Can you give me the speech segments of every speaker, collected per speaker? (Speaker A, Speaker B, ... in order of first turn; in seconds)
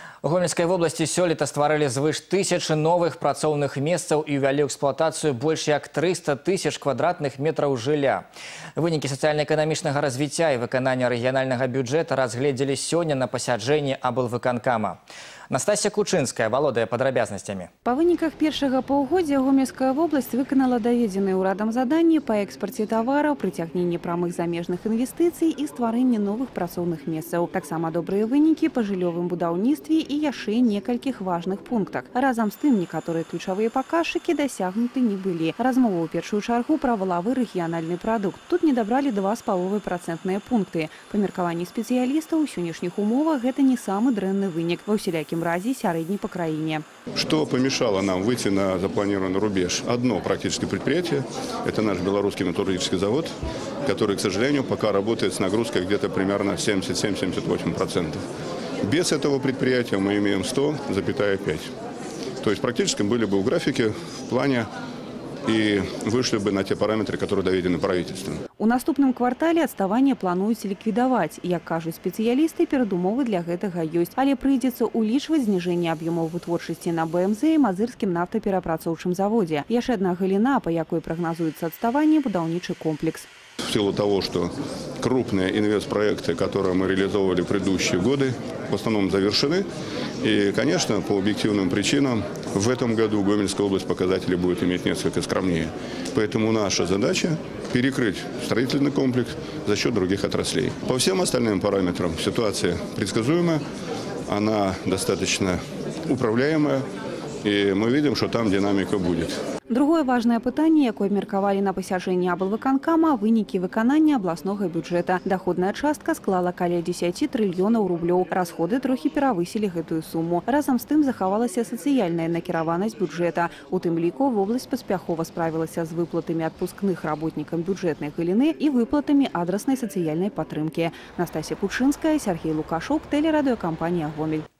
Speaker A: 0.2-15.0, 15.5-17.7
Speaker B: 17.8-46.8, 68.6-83.3, 109.7-134.4
Speaker C: 47.2-53.3, 53.9-58.2, 58.9-61.7, 62.4-64.7, 65.5-68.4, 83.7-89.6, 90.2-103.6, 104.3-105.6, 106.1-106.8, 107.5-109.3